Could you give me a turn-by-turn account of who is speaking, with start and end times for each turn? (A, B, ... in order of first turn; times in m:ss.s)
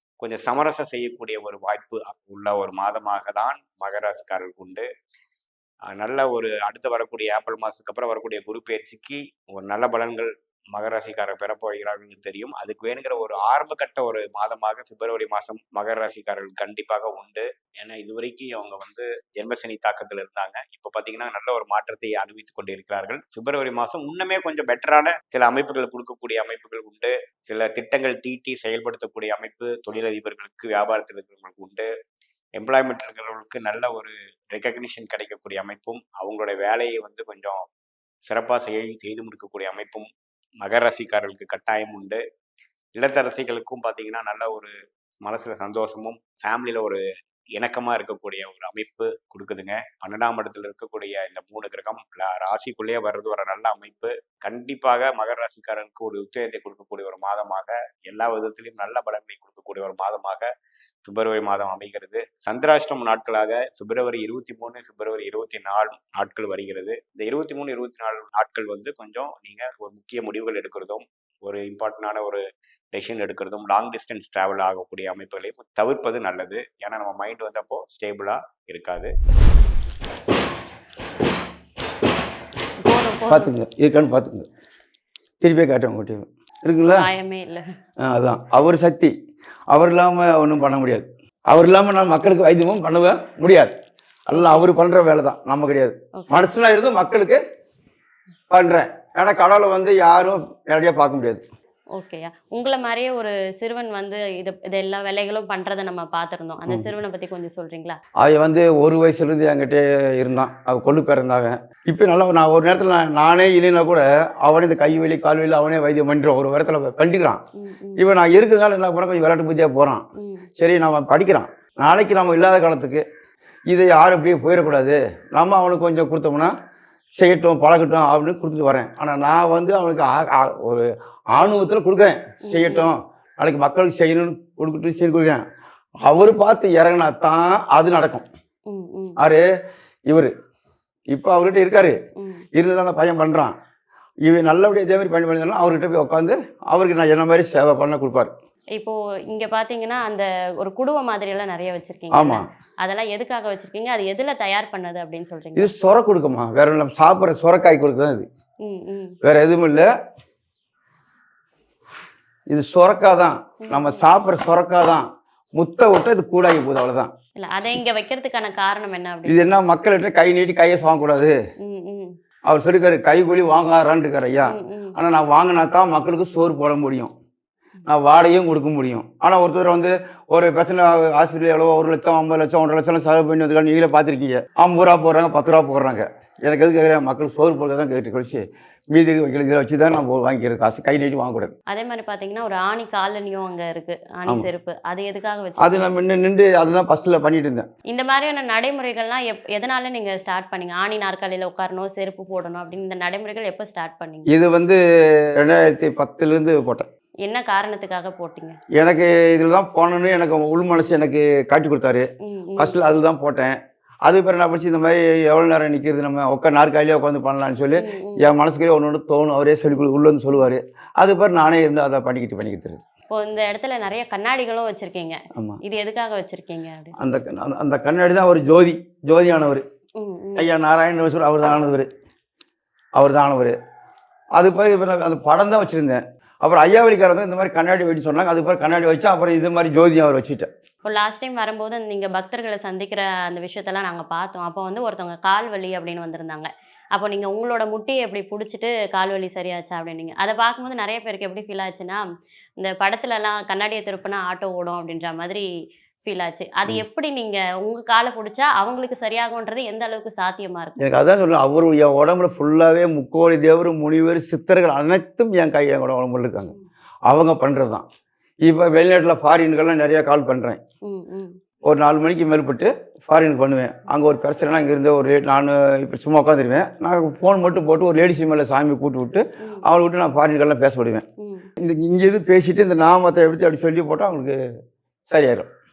0:00.2-0:04.9 A
0:06.0-0:31.9 A
0:32.6-0:37.6 A
0:38.3-0:40.1 A
0:40.6-0:42.2 A
0:43.0-0:44.7 A
0:45.2-0:47.0 A
0:47.6-1:00.5 A
1:01.0-1:12.4 A
1:12.9-1:19.1 A
1:22.8-1:23.5 B
1:23.3-1:24.5 C
1:25.4-1:27.1 C
1:26.9-1:27.6 B
1:28.0-1:29.1 C
1:29.7-1:33.7 C
1:34.3-1:37.4 C
1:36.2-1:36.4 B
1:38.5-1:41.4 C
1:42.0-1:48.0 B
1:48.2-1:57.4 C
1:57.6-1:58.1 B
1:58.0-2:00.0 C
2:00.2-2:00.5 B
2:00.6-2:03.0 C
2:03.7-2:06.5 C
2:07.2-2:15.4 C
2:12.5-2:12.9 B
2:16.1-2:18.2 C
2:18.7-2:19.2 B
2:19.2-2:19.5 C
2:21.1-2:22.0 C
2:22.2-2:22.4 B
2:22.6-2:23.5 C
2:24.3-2:28.3 C
2:28.8-2:35.7 B
2:32.1-2:32.5 C
2:35.6-2:38.3 C
2:38.6-2:39.2 B
2:39.2-2:39.9 C
2:42.5-2:45.0 C
2:43.6-2:44.2 B
2:45.6-2:47.1 C
2:47.4-2:49.5 B
2:49.3-2:51.4 C
2:51.6-2:52.2 B
2:52.5-2:57.1 C
2:54.4-2:55.0 B
2:57.9-3:11.5 C
3:11.7-3:15.9 B
3:15.6-3:17.7 C
3:17.9-3:24.3 B
3:24.3-3:24.8 C
3:25.4-3:26.9 C
3:27.2-3:28.6 B
3:28.8-3:32.1 C
3:32.2-3:32.8 B
3:32.6-3:42.8 C
3:37.7-3:38.3 B
3:43.1-3:46.9 B
3:47.0-3:49.6 C
3:50.0-3:50.5 B
3:50.4-3:51.9 C
3:53.0-3:53.6 C
3:54.4-4:00.5 C
4:00.8-4:12.0 B
4:12.6-4:15.5 B
4:16.0-4:20.8 B
4:20.8-4:26.6 C
4:27.1-4:27.8 C
4:28.4-4:30.6 C
4:30.9-4:31.4 B
4:31.6-4:41.0 C
4:41.2-4:41.5 B
4:41.6-4:44.4 C
4:45.1-4:45.5 C